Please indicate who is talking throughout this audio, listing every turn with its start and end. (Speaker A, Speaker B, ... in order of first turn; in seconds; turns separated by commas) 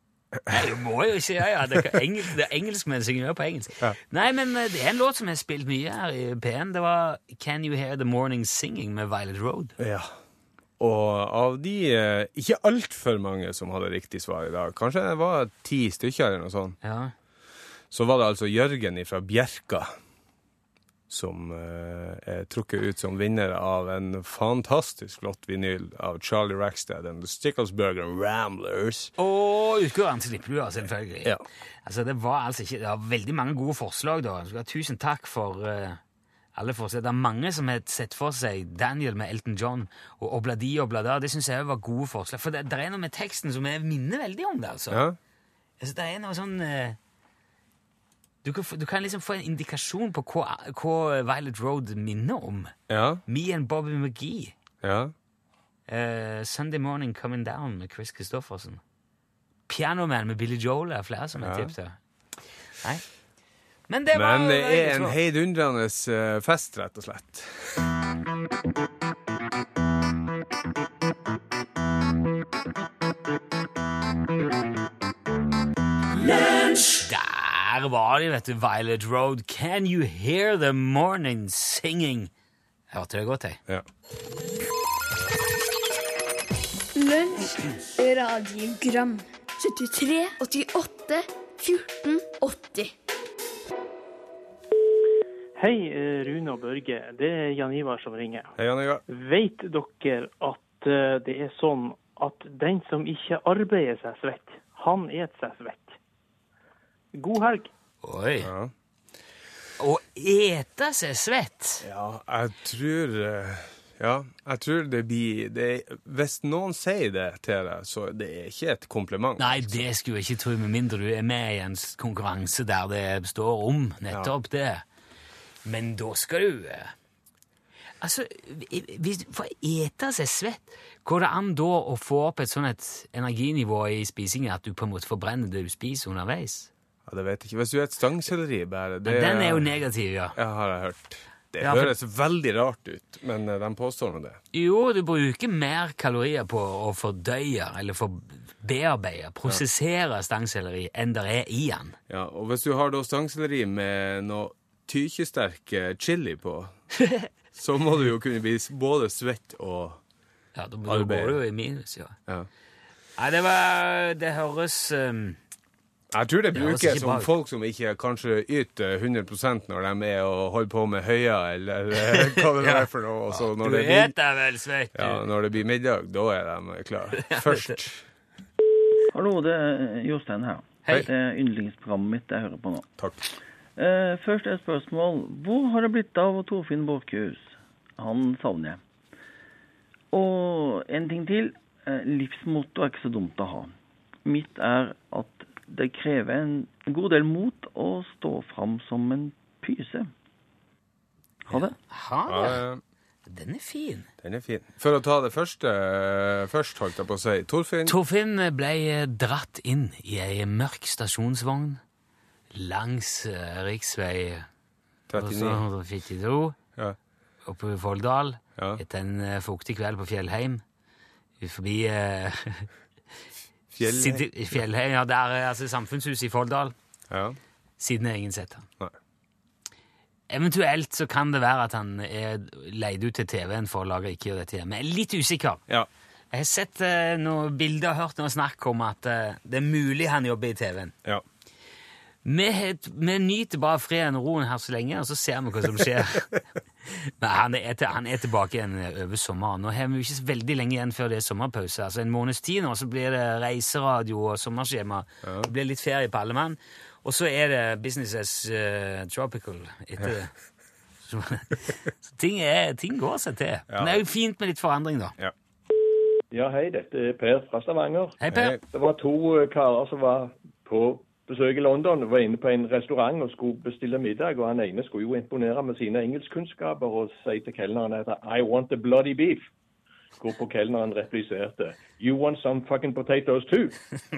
Speaker A: 0.5-9.8, Speaker B: 9.8-10.1, Speaker B: 10.8-16.8, Speaker A: 16.8-17.1, Speaker B: 17.9-19.9, Speaker B: 21.1-29.1, Speaker A: 29.2-31.3, Speaker A: 31.8-36.0, Speaker A: 36.5-45.0, Speaker B: 44.9-45.2, Speaker A: 45.8-47.0, Speaker A: 48.4-52.7, Speaker B: 52.9-53.2, Speaker A: 53.3-54.5, Speaker B: 54.8-55.1, Speaker A: 55.9-58.8, Speaker A: 59.7-62.0, Speaker B: 61.4-61.7, Speaker A: 63.9-65.2, Speaker B: 64.1-67.8, Speaker A: 76.9-82.3, Speaker A: 82.9-83.6, Speaker C: 87.0-92.9, Speaker D: 95.6-98.5, Speaker B: 98.6-99.0, Speaker D: 99.1-106.0, Speaker D: 107.2-107.7, Speaker A: 108.0-108.5, Speaker B: 108.4-108.7, Speaker A: 109.8-111.8, Speaker B: 111.8-119.8, Speaker A: 119.4-124.8, Speaker A: 125.7-126.9, Speaker A: 128.0-136.7, Speaker B: 137.1-139.7, Speaker A: 139.1-140.4, Speaker B: 140.3-144.4, Speaker A: 141.6-141.9, Speaker A: 144.5-152.0, Speaker B: 152.1-156.7, Speaker A: 157.0-157.3, Speaker B: 157.5-160.0, Speaker A: 160.6-162.2, Speaker B: 160.9-161.4, Speaker A: 163.2-165.4, Speaker B: 166.1-174.2, Speaker A: 166.5-167.3, Speaker A: 172.0-175.2, Speaker B: 174.9-178.0, Speaker A: 177.2-177.8, Speaker E: 179.1-182.9, Speaker B: 183.0-183.2, Speaker E: 183.8-188.8, Speaker E: 190.1-193.7, Speaker E: 194.2-200.1, Speaker A: 201.5-202.6, Speaker B: 202.3-202.8, Speaker A: 203.3-204.1, Speaker B: 204.2-208.0, Speaker A: 207.9-211.8, Speaker A: 212.5-214.5, Speaker B: 215.1-215.6, Speaker A: 215.1-216.6, Speaker A: 217.4-220.6, Speaker B: 218.6-218.8, Speaker A: 221.4-222.7, Speaker B: 223.7-224.3, Speaker A: 223.8-226.8, Speaker B: 227.1-227.4, Speaker A: 227.8-228.7, Speaker A: 230.3-235.6, Speaker A: 236.3-240.9, Speaker A: 242.2-246.3, Speaker A: 246.9-260.3, Speaker B: 255.2-255.5, Speaker A: 261.1-265.1, Speaker B: 263.7-264.0, Speaker F: 266.3-279.5, Speaker A: 268.2-268.6, Speaker B: 268.3-268.6, Speaker F: 280.2-283.8